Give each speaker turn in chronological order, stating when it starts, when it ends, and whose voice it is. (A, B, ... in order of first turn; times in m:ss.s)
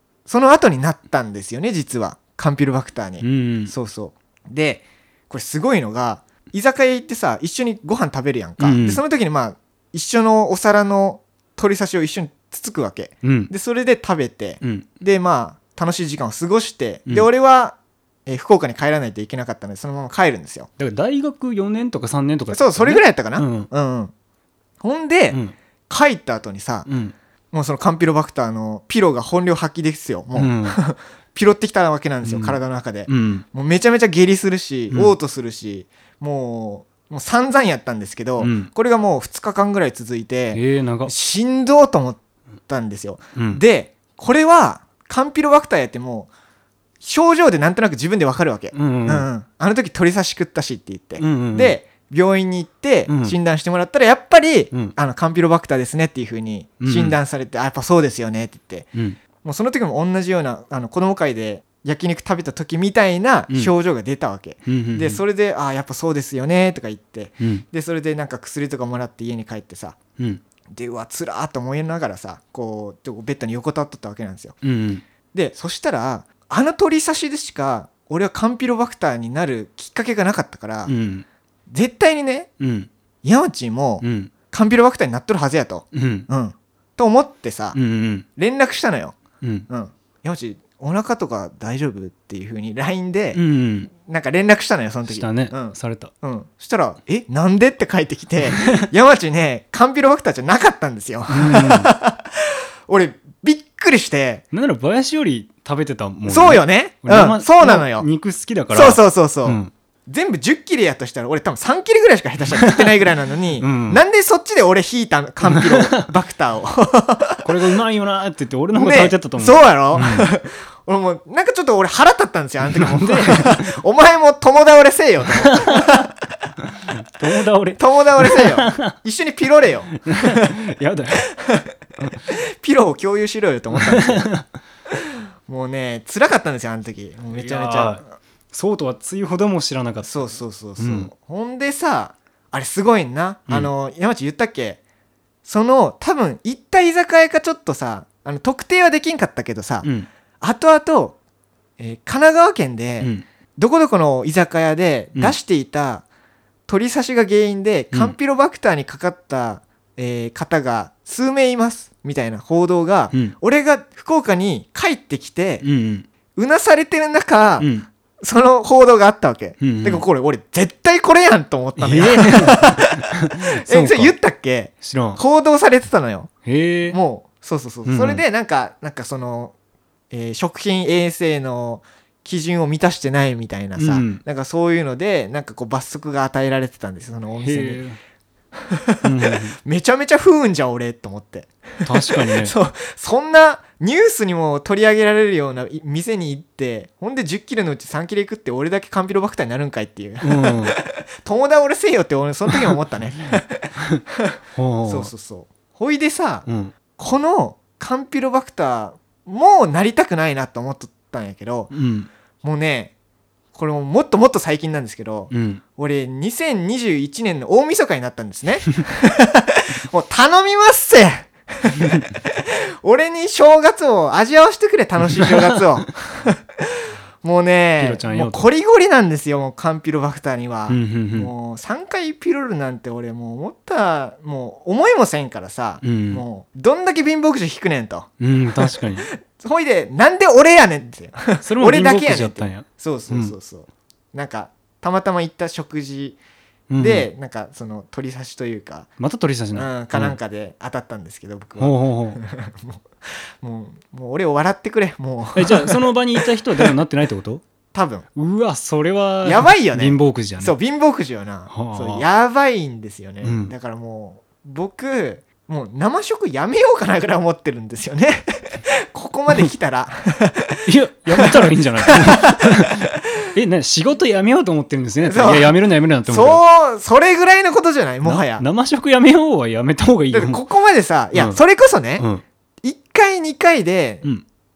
0:00.3-0:20.7 A
0:03.2-0:03.7 B
0:08.6-0:09.0 B
0:13.2-0:13.5 B
0:14.6-0:14.9 B
0:20.8-0:23.7 B
0:22.5-0:24.1 A
0:24.8-0:26.9 A
0:26.8-0:27.1 B
0:27.5-0:46.3 A
0:30.3-0:30.8 B
0:32.2-0:33.4 B
0:34.9-0:35.2 B
0:38.4-0:38.7 B
0:40.5-0:41.1 B
0:43.3-0:43.6 B
0:47.0-1:10.0 A
0:48.7-0:49.3 B
0:51.2-0:51.8 B
0:53.1-0:53.4 B
0:56.8-0:57.2 B
1:04.7-1:05.2 B
1:10.7-1:14.6 A
1:14.6-1:15.0 B
1:15.3-1:20.9 A
1:20.8-1:21.2 B
1:21.7-1:22.5 A
1:22.6-1:22.9 B
1:23.2-1:27.8 A
1:24.0-1:24.3 B
1:25.9-1:26.3 B
1:27.7-1:28.2 B
1:28.4-1:29.2 A
1:29.4-1:29.7 B
1:29.7-1:44.4 A
1:33.3-1:33.9 B
1:35.0-1:36.1 B
1:38.6-1:38.9 B
1:41.3-1:41.9 B
1:44.5-1:49.7 B
1:46.3-1:48.1 A
1:48.7-1:57.7 A
1:52.6-1:52.9 B
1:53.6-1:54.0 B
1:55.5-1:56.1 B
1:57.4-2:00.3 B
1:58.7-2:06.1 A
2:02.6-2:03.8 B
2:05.3-2:06.0 B
2:06.6-2:08.9 B
2:07.8-2:10.5 A
2:10.0-2:11.2 B
2:11.2-2:14.3 A
2:13.8-2:14.4 B
2:14.9-2:18.1 A
2:17.3-2:21.1 B
2:20.0-2:24.8 A
2:25.4-2:29.9 A
2:29.8-2:30.1 B
2:30.4-2:31.2 A
2:31.8-2:36.0 A
2:36.7-2:45.6 A
2:45.6-2:46.1 B
2:46.4-2:47.7 A
2:47.6-2:47.9 B
2:48.2-2:56.3 A
2:49.6-2:50.0 B
2:51.8-2:54.1 B
2:54.8-2:55.2 B
2:56.4-2:57.0 B
2:56.9-2:59.5 A
2:57.8-2:58.2 B
3:00.1-3:07.8 A
3:03.8-3:04.2 B
3:07.3-3:08.0 B
3:08.6-3:31.7 A
3:09.0-3:09.6 B
3:11.8-3:12.5 B
3:20.2-3:20.8 B
3:22.5-3:22.7 B
3:24.5-3:25.1 B
3:26.5-3:26.7 B
3:31.7-3:32.1 B
3:32.4-3:32.9 A
3:33.5-4:06.2 A
3:35.3-3:35.6 B
3:47.8-3:48.5 B
3:50.7-3:51.3 B
3:55.8-3:56.2 B
3:58.2-3:59.1 B
4:01.4-4:03.3 B
4:06.7-4:07.1 B
4:06.8-4:08.9 A
4:09.0-4:10.2 B
4:09.5-4:16.7 A
4:11.6-4:12.2 B
4:15.4-4:17.4 B
4:17.7-4:18.1 A
4:18.1-4:20.5 B
4:19.2-4:30.6 A
4:21.5-4:22.0 B
4:23.2-4:23.5 B
4:30.6-4:36.4 B
4:31.1-4:32.9 A
4:35.0-4:38.4 A
4:38.0-4:40.4 B
4:40.1-4:42.0 A
4:41.1-4:41.4 B
4:42.0-4:42.2 B
4:42.6-4:44.1 A